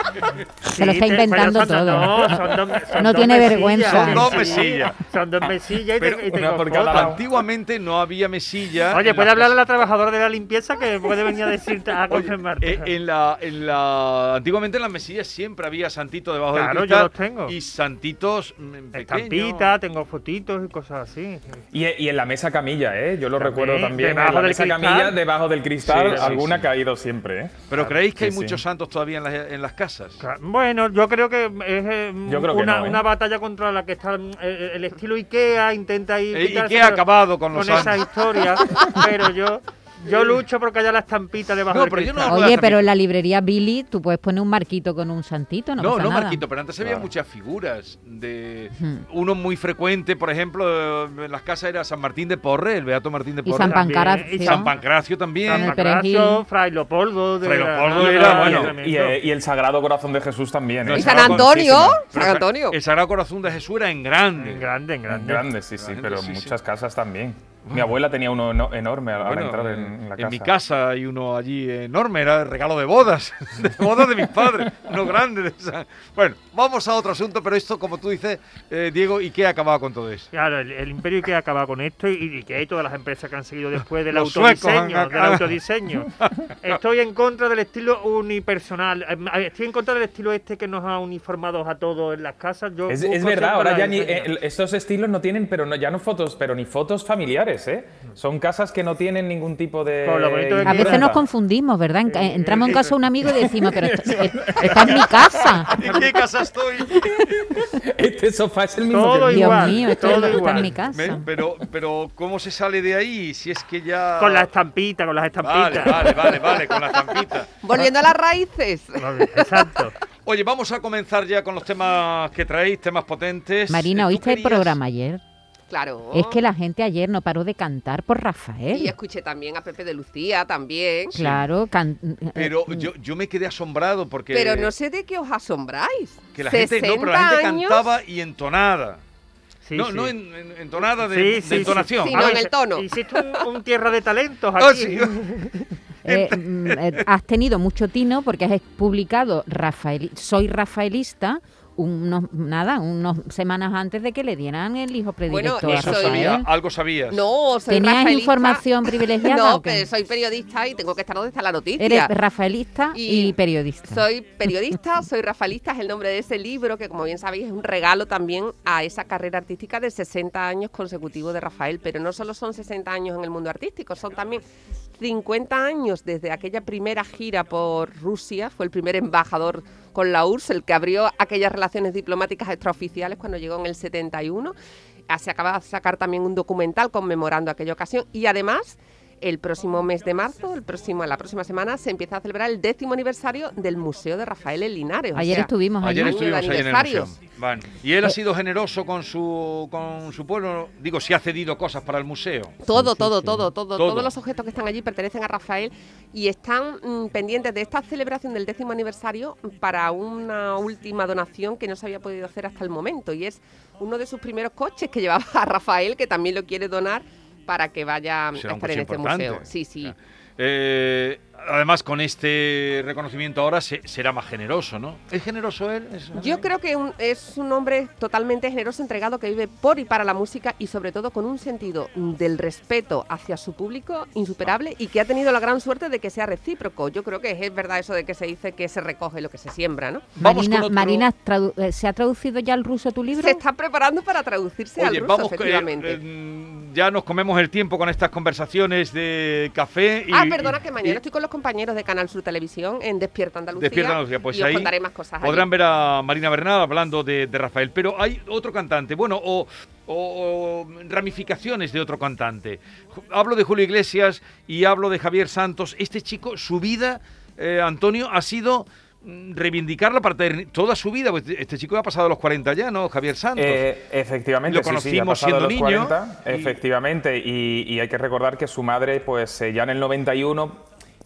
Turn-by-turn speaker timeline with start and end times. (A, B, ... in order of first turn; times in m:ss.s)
0:00.6-0:07.2 A
0:00.8-0:04.4 B
0:03.9-0:05.0 C
0:06.0-0:09.5 C
0:06.3-0:07.2 D
0:08.9-0:12.9 A
0:12.1-0:19.7 C
0:16.5-0:17.5 A
0:18.9-0:21.6 A
0:21.7-0:27.6 D
0:23.4-0:25.2 A
0:25.8-0:26.7 C
0:25.9-0:26.4 A
0:27.7-0:30.2 C
0:28.2-0:28.6 D
0:30.2-0:42.6 A
0:32.2-0:33.0 D
0:36.3-0:38.1 C
0:41.7-0:42.9 C
0:42.3-0:46.4 B
0:45.8-0:53.8 C
0:48.7-0:49.0 B
0:53.4-0:54.7 B
0:53.6-0:54.8 A
0:54.4-0:55.7 C
0:55.4-0:59.2 A
0:55.5-0:56.4 B
0:57.4-0:58.7 C
0:58.0-1:01.6 D
1:00.8-1:04.7 C
1:00.9-1:02.8 E
1:04.4-1:05.5 A
1:05.1-1:10.5 D
1:05.8-1:06.5 C
1:09.2-1:20.3 C
1:20.3-1:26.1 A
1:24.1-1:25.6 C
1:26.6-1:34.3 A
1:32.9-1:41.2 D
1:40.0-1:41.2 A
1:40.6-1:45.8 B
1:42.0-1:43.0 A
1:43.2-1:46.0 D
1:45.7-1:47.0 C
1:47.0-1:50.4 D
1:48.9-1:50.8 A
1:49.3-1:51.2 B
1:50.9-1:54.5 C
1:54.2-1:56.4 A
1:55.4-1:57.5 C
1:57.6-1:59.6 E
1:59.0-1:59.9 A
2:00.2-2:04.8 C
2:03.7-2:05.2 B
2:05.7-2:06.4 E
2:06.1-2:08.9 B
2:08.7-2:11.1 E
2:11.1-2:12.9 B
2:11.1-2:11.4 C
2:12.4-2:14.7 C
2:14.3-2:17.8 E
2:16.3-2:19.0 C
2:19.6-2:20.1 A
2:19.7-2:22.4 C
2:20.8-2:25.6 A
2:22.0-2:22.9 E
2:24.6-2:25.2 C
2:26.0-2:36.5 B
2:26.1-2:26.8 C
2:35.3-2:36.4 E
2:35.6-2:37.2 C
2:37.1-2:42.1 E
2:37.7-2:39.8 B
2:41.8-2:44.0 B
2:42.9-2:54.4 E
2:55.0-3:04.5 E
3:05.1-3:17.1 E
3:15.1-3:16.2 B
3:15.8-3:22.6 C
3:22.6-3:39.9 E
3:23.7-3:24.1 C
3:38.3-3:46.4 C
3:46.2-4:00.1 E
4:00.2-4:01.1 C
4:00.2-4:03.4 B
4:03.1-4:06.0 E
4:04.8-4:11.0 C
4:10.1-4:15.5 E
4:13.5-4:33.6 C
4:33.4-4:40.6 D
4:34.5-4:36.6 C